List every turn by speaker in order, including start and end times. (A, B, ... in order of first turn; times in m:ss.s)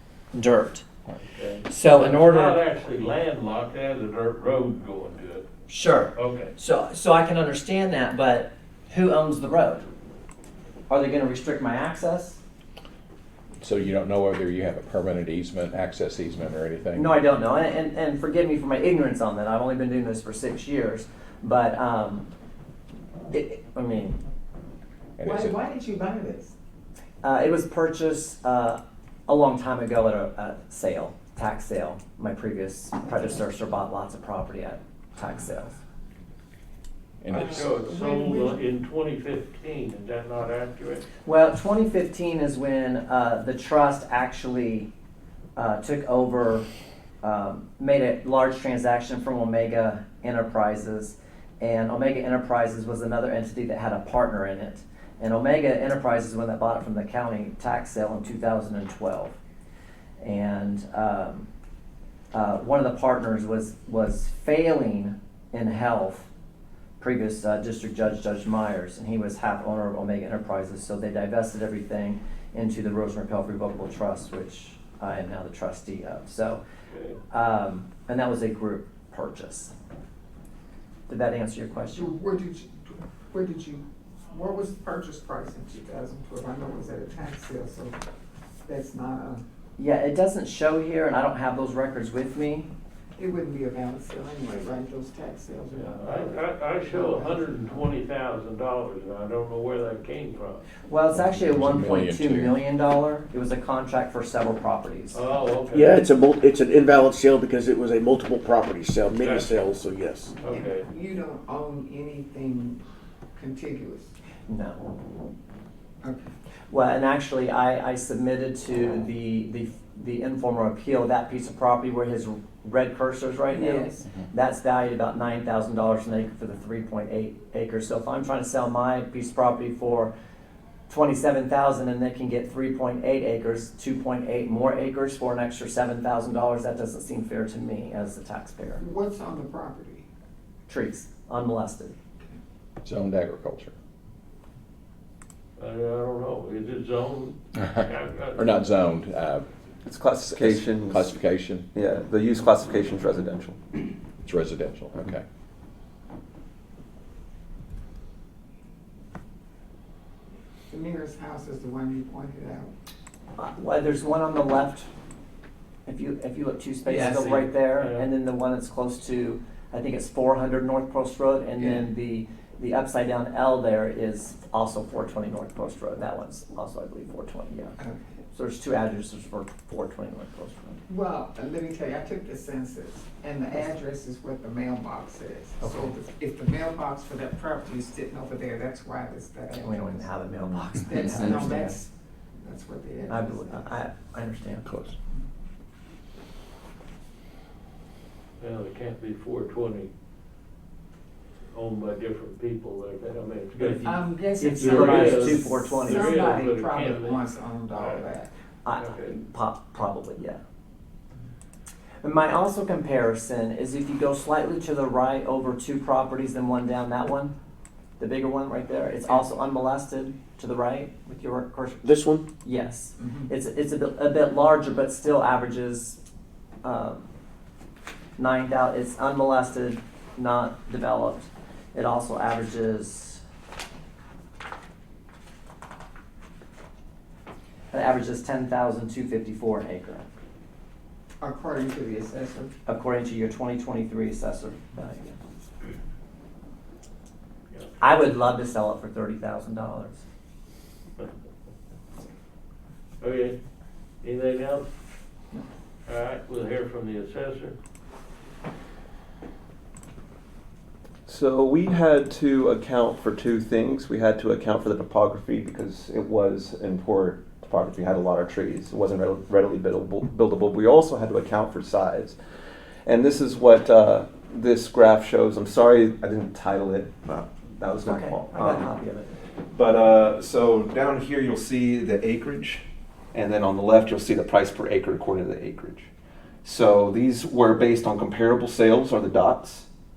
0:00.3-0:00.9 A
0:01.4-0:05.5 B
0:01.7-0:02.6 A
0:05.7-0:09.9 A
0:06.2-0:06.5 B
0:10.9-0:12.4 A
0:13.6-0:17.2 C
0:16.9-0:22.3 A
0:23.3-0:24.2 A
0:25.2-0:25.5 C
0:25.2-0:26.5 D
0:27.2-0:35.8 A
0:37.2-0:37.7 C
0:37.3-0:38.6 D
0:37.4-0:41.0 B
0:41.2-0:44.9 A
0:45.6-0:46.7 A
0:47.2-0:59.4 A
1:00.2-1:01.5 A
1:02.3-1:06.3 A
1:07.0-1:16.6 A
1:16.9-1:17.2 B
1:17.3-1:19.7 A
1:21.1-1:22.1 A
1:21.9-1:28.0 D
1:28.6-1:29.4 D
1:29.8-1:32.7 A
1:33.2-1:37.6 D
1:35.7-1:40.6 B
1:40.9-1:45.2 A
1:41.1-1:42.6 C
1:45.1-1:46.0 B
1:45.7-1:50.3 E
1:49.2-1:49.5 B
1:50.4-1:52.8 D
1:50.4-1:50.9 B
1:53.4-1:54.1 D
1:54.5-1:54.8 A
1:56.7-2:10.1 A
2:03.5-2:04.0 D
2:10.9-2:18.8 A
2:18.8-2:20.0 D
2:20.7-2:21.9 A
2:22.8-2:23.8 C
2:25.6-2:28.5 B
2:28.4-2:29.5 C
2:29.8-2:31.1 F
2:30.3-2:31.7 C
2:31.7-2:33.8 F
2:34.2-2:35.2 C
2:40.7-2:42.7 D
2:43.4-2:44.9 A
2:45.9-2:57.8 A
2:46.9-2:48.1 B
2:57.8-2:58.1 D
2:58.3-3:00.8 A
3:00.9-3:13.8 D
3:09.6-3:11.8 A
3:13.1-3:14.6 A
3:14.6-3:15.0 C
3:18.4-3:19.9 B
3:21.5-3:23.8 B
3:23.6-3:26.2 A
3:23.8-3:28.3 D
3:24.5-3:28.0 B
3:28.6-3:30.4 A
3:28.8-3:29.2 B
3:32.0-3:37.3 A
3:38.0-3:41.8 A
3:41.8-3:42.3 E
3:42.4-3:46.0 A
3:43.0-3:43.3 D
3:46.6-3:47.1 A
3:48.2-3:53.2 A
3:57.7-4:00.1 A
4:01.2-4:02.5 D
4:02.7-4:05.2 A
4:07.8-4:10.0 A
4:13.0-4:13.4 B
4:14.0-4:14.7 B
4:15.9-4:17.6 B
4:21.1-4:32.2 F
4:32.9-4:38.7 F
4:37.8-4:39.1 A
4:39.5-4:45.9 F
4:46.4-4:49.7 F